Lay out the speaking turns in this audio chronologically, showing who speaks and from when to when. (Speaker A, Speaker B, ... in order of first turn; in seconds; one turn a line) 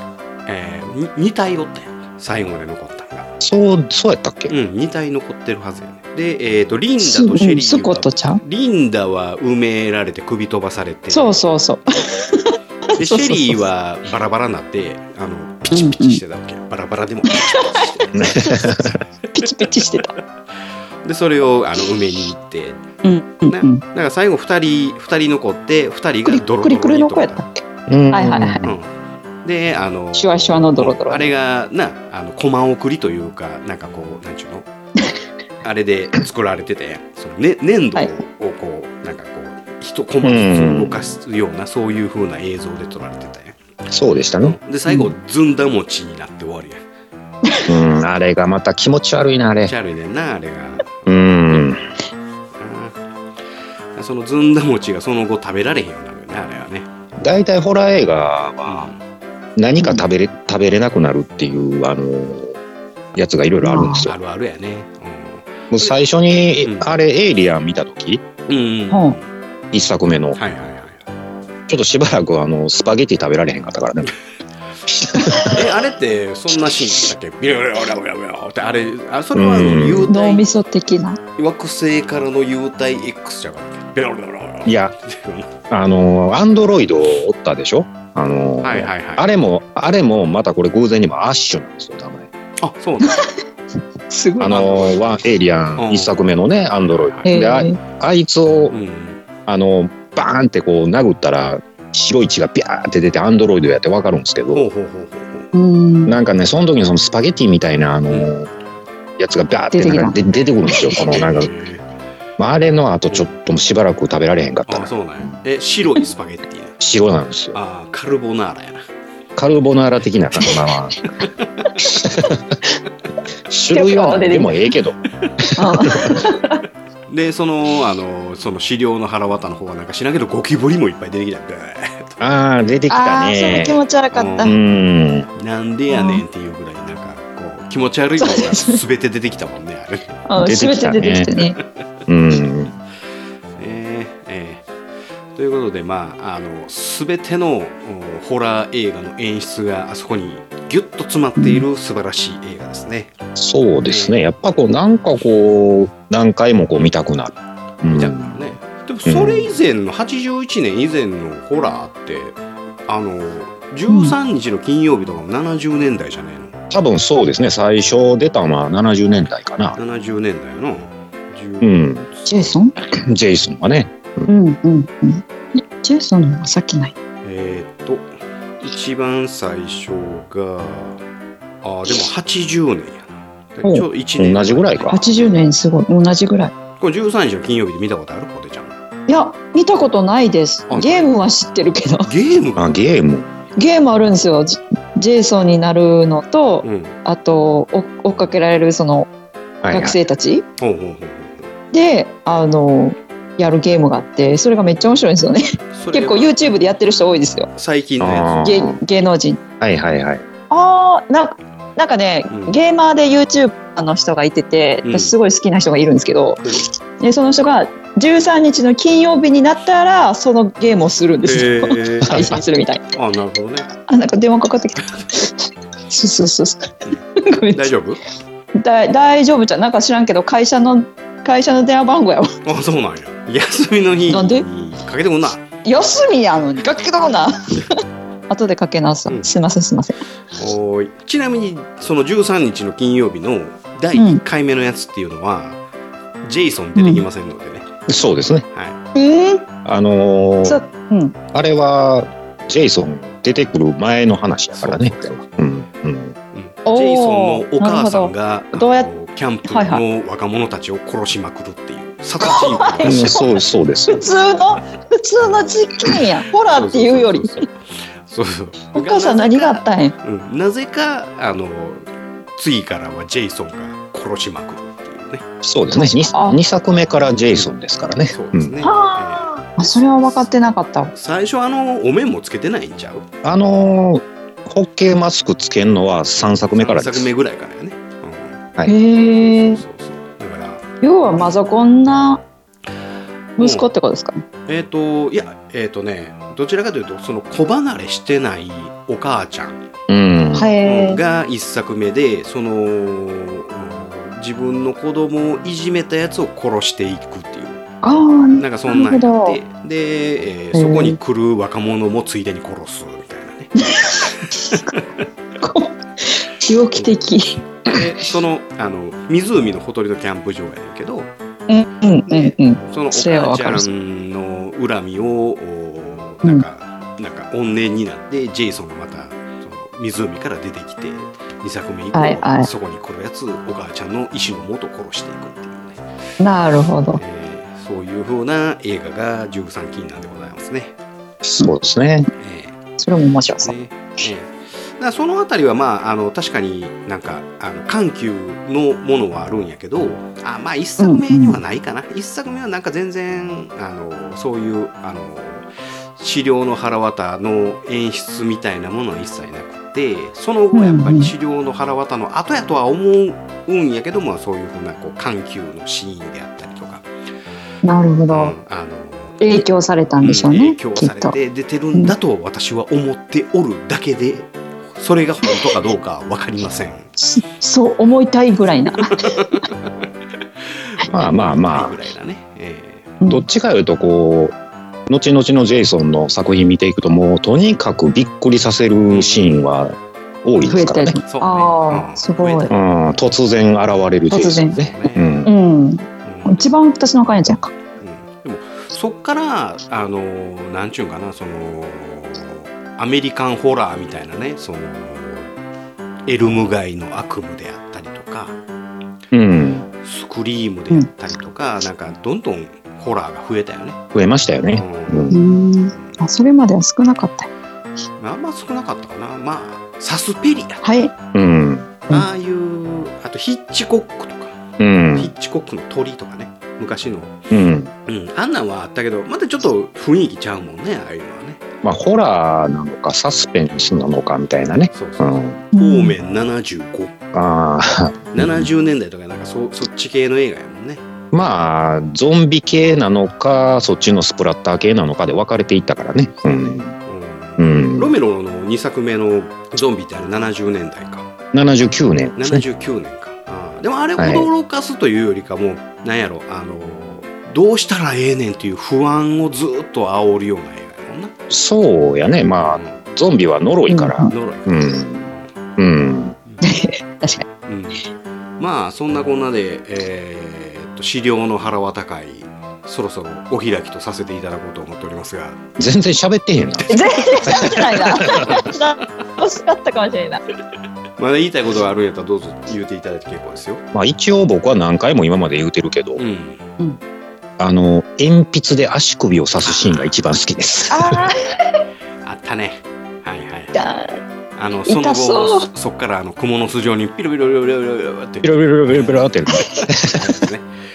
Speaker A: 0.5-3.3
Speaker B: 3.4-4.5
Speaker A: 4.5-11.4
Speaker C: 7.0-8.4
Speaker C: 11.1-13.6
Speaker A: 13.0-18.2
Speaker C: 15.7-16.2
Speaker C: 17.3-18.7
Speaker B: 18.1-19.0
Speaker C: 19.3-20.1
Speaker A: 21.0-22.8
Speaker C: 23.0-23.8
Speaker A: 23.5-27.4
Speaker C: 26.2-27.6
Speaker B: 27.9-28.7
Speaker C: 28.1-28.6
Speaker A: 28.6-28.9
Speaker A: 29.4-34.7
Speaker C: 30.1-31.3
Speaker A: 35.6-43.6
Speaker B: 40.2-41.1
Speaker B: 43.9-44.6
Speaker A: 44.4-46.8
Speaker B: 47.7-49.7
Speaker A: 49.6-51.0
Speaker B: 51.0-51.8
Speaker A: 52.6-53.0
Speaker A: 54.0-56.9
Speaker B: 57.2-58.9
Speaker A: 58.6-59.0
Speaker B: 59.6-62.6
Speaker B: 63.1-64.1
Speaker C: 63.6-64.1
Speaker A: 64.0-65.9
Speaker B: 65.7-68.2
Speaker A: 66.6-66.9
Speaker A: 68.5-69.3
Speaker C: 68.9-69.2
Speaker B: 69.7-70.4
Speaker A: 70.3-71.0
Speaker B: 71.7-74.1
Speaker B: 74.9-75.6
Speaker C: 75.2-75.5
Speaker A: 75.5-80.5
Speaker B: 79.3-80.1
Speaker C: 80.1-81.2
Speaker A: 81.4-85.5
Speaker B: 84.7-84.9
Speaker B: 85.7-92.3
Speaker A: 88.6-89.3
Speaker A: 92.6-93.2
Speaker C: 94.1-94.6
Speaker B: 94.4-98.8
Speaker A: 94.4-95.2
Speaker A: 95.8-96.3
Speaker A: 96.8-97.3
Speaker C: 97.2-97.8
Speaker A: 98.7-99.2
Speaker B: 99.5-104.7
Speaker A: 104.5-105.5
Speaker C: 105.5-106.1
Speaker B: 106.0-108.5
Speaker B: 109.2-111.5
Speaker C: 109.7-110.9
Speaker A: 110.8-111.8
Speaker B: 112.4-114.9
Speaker A: 114.7-116.8
Speaker B: 116.8-117.6
Speaker A: 117.5-118.8
Speaker B: 119.3-121.0
Speaker B: 122.0-122.4
Speaker B: 123.5-125.0
Speaker C: 123.7-124.5
Speaker C: 125.6-126.6
Speaker A: 127.1-132.2
Speaker B: 132.2-133.8
Speaker C: 132.9-134.5
Speaker A: 134.1-134.5
Speaker B: 134.4-135.3
Speaker A: 135.4-140.2
Speaker C: 135.9-136.2
Speaker C: 138.2-138.8
Speaker C: 140.3-141.6
Speaker B: 140.4-141.3
Speaker B: 142.1-142.8
Speaker A: 143.6-144.7
Speaker A: 145.3-153.1
Speaker C: 151.4-151.6
Speaker B: 153.3-158.4
Speaker A: 153.9-154.5
Speaker A: 157.9-166.6
Speaker B: 159.1-159.5
Speaker C: 163.9-164.1
Speaker B: 166.7-169.8
Speaker A: 169.8-172.5
Speaker B: 171.6-172.0
Speaker C: 172.3-172.7
Speaker B: 173.0-174.3
Speaker C: 174.3-176.9
Speaker A: 177.2-178.1
Speaker A: 178.6-181.0
Speaker A: 181.6-185.5
Speaker B: 184.2-185.0
Speaker C: 184.9-186.5
Speaker A: 186.8-188.8
Speaker C: 189.1-192.1
Speaker A: 190.7-191.1
Speaker A: 192.0-192.7
Speaker B: 192.6-193.3
Speaker C: 193.6-199.1
Speaker A: 196.6-197.0
Speaker B: 199.6-200.0
Speaker C: 199.7-200.4
Speaker A: 200.6-201.5
Speaker C: 201.7-207.5
Speaker A: 205.7-206.4
Speaker A: 207.6-208.4
Speaker B: 208.0-208.8
Speaker C: 208.4-209.4
Speaker B: 209.6-210.2
Speaker C: 210.5-216.4
Speaker A: 212.3-212.6
Speaker A: 214.8-215.1
Speaker C: 217.0-222.8
Speaker A: 221.2-222.4
Speaker A: 222.9-223.7
Speaker C: 223.9-227.7
Speaker A: 227.5-228.0
Speaker C: 228.6-232.3
Speaker A: 232.4-235.4
Speaker C: 234.1-234.4
Speaker C: 235.6-237.6
Speaker C: 238.3-240.0
Speaker A: 239.1-239.3
Speaker A: 240.3-245.6
Speaker C: 243.9-244.2
Speaker A: 246.2-247.7
Speaker C: 246.8-247.0
Speaker B: 247.9-248.4
Speaker A: 248.5-248.8
Speaker C: 248.9-249.4
Speaker B: 249.6-250.6
Speaker C: 250.4-251.1
Speaker B: 251.3-256.1
Speaker A: 254.6-255.0
Speaker A: 256.3-263.2
Speaker C: 256.7-258.9
Speaker C: 259.5-259.8
Speaker C: 262.2-267.4
Speaker B: 262.8-264.1
Speaker A: 266.5-267.5
Speaker A: 268.0-271.8
Speaker C: 268.7-269.9
Speaker A: 272.4-275.2
Speaker B: 275.4-278.5
Speaker C: 275.7-276.4
Speaker A: 278.1-280.3
Speaker C: 278.6-280.9
Speaker A: 280.9-283.0
Speaker B: 283.2-287.1
Speaker A: 286.2-288.4
Speaker C: 288.7-289.6
Speaker A: 289.2-290.6
Speaker C: 290.8-292.2
Speaker C: 293.4-294.2
Speaker A: 293.4-293.7
Speaker A: 294.5-299.6
Speaker B: 299.9-300.5
Speaker C: 300.3-301.0
Speaker A: 300.6-307.7
Speaker C: 307.8-309.4
Speaker A: 308.3-314.8
Speaker C: 310.5-311.0
Speaker C: 313.6-314.6
Speaker C: 315.4-317.7
Speaker A: 317.6-321.1
Speaker C: 321.5-323.7
Speaker A: 322.1-335.8
Speaker C: 331.9-332.5
Speaker C: 336.2-337.0
Speaker A: 337.0-340.7
Speaker B: 341.2-342.1
Speaker A: 342.2-342.6
Speaker C: 342.8-343.5
Speaker A: 343.4-366.8
Speaker C: 350.8-351.4
Speaker C: 360.5-361.1
Speaker C: 367.6-368.3
Speaker A: 368.1-369.2
Speaker C: 369.2-371.1
Speaker A: 370.0-376.9
Speaker C: 377.0-379.4
Speaker A: 378.9-379.7
Speaker A: 380.5-382.9
Speaker B: 380.9-381.7
Speaker C: 383.0-383.2
Speaker B: 383.1-384.3
Speaker B: 384.9-391.0
Speaker A: 388.9-389.5
Speaker C: 390.5-392.5
Speaker A: 391.1-392.6
Speaker B: 392.5-395.3
Speaker C: 394.1-394.6
Speaker A: 394.4-395.1
Speaker C: 395.2-397.5
Speaker A: 396.0-396.4
Speaker A: 397.8-405.3
Speaker A: 406.1-408.4
Speaker B: 409.1-409.7
Speaker A: 409.8-413.8
Speaker B: 413.9-415.1
Speaker A: 414.5-415.2
Speaker C: 415.1-417.3
Speaker A: 415.7-416.0
Speaker A: 418.0-420.6
Speaker C: 420.6-420.9
Speaker B: 421.1-421.8
Speaker A: 421.9-424.4
Speaker B: 424.6-425.1
Speaker A: 424.9-427.1
Speaker B: 427.3-427.7
Speaker A: 427.9-431.4
Speaker B: 431.6-435.4
Speaker A: 434.7-436.9
Speaker C: 435.5-435.9
Speaker B: 437.1-438.5
Speaker A: 438.1-440.8
Speaker B: 441.1-446.7
Speaker A: 446.3-451.1
Speaker B: 447.4-447.9
Speaker B: 451.3-452.4
Speaker A: 452.2-461.1
Speaker B: 454.0-454.3
Speaker B: 461.3-466.1
Speaker A: 462.4-462.8
Speaker C: 463.7-464.1
Speaker A: 464.1-465.3
Speaker C: 466.4-467.2
Speaker A: 467.5-467.8
Speaker A: 468.4-475.4
Speaker B: 475.6-476.7
Speaker A: 476.6-478.8
Speaker C: 476.7-480.2
Speaker B: 477.4-478.2
Speaker A: 481.0-483.6
Speaker B: 483.7-486.0
Speaker A: 486.0-486.4
Speaker B: 487.4-491.0
Speaker A: 489.4-489.9
Speaker C: 490.7-491.6
Speaker A: 492.0-493.7
Speaker C: 493.5-494.0
Speaker A: 494.4-499.1
Speaker C: 494.7-495.5
Speaker B: 498.2-500.1
Speaker A: 499.9-500.5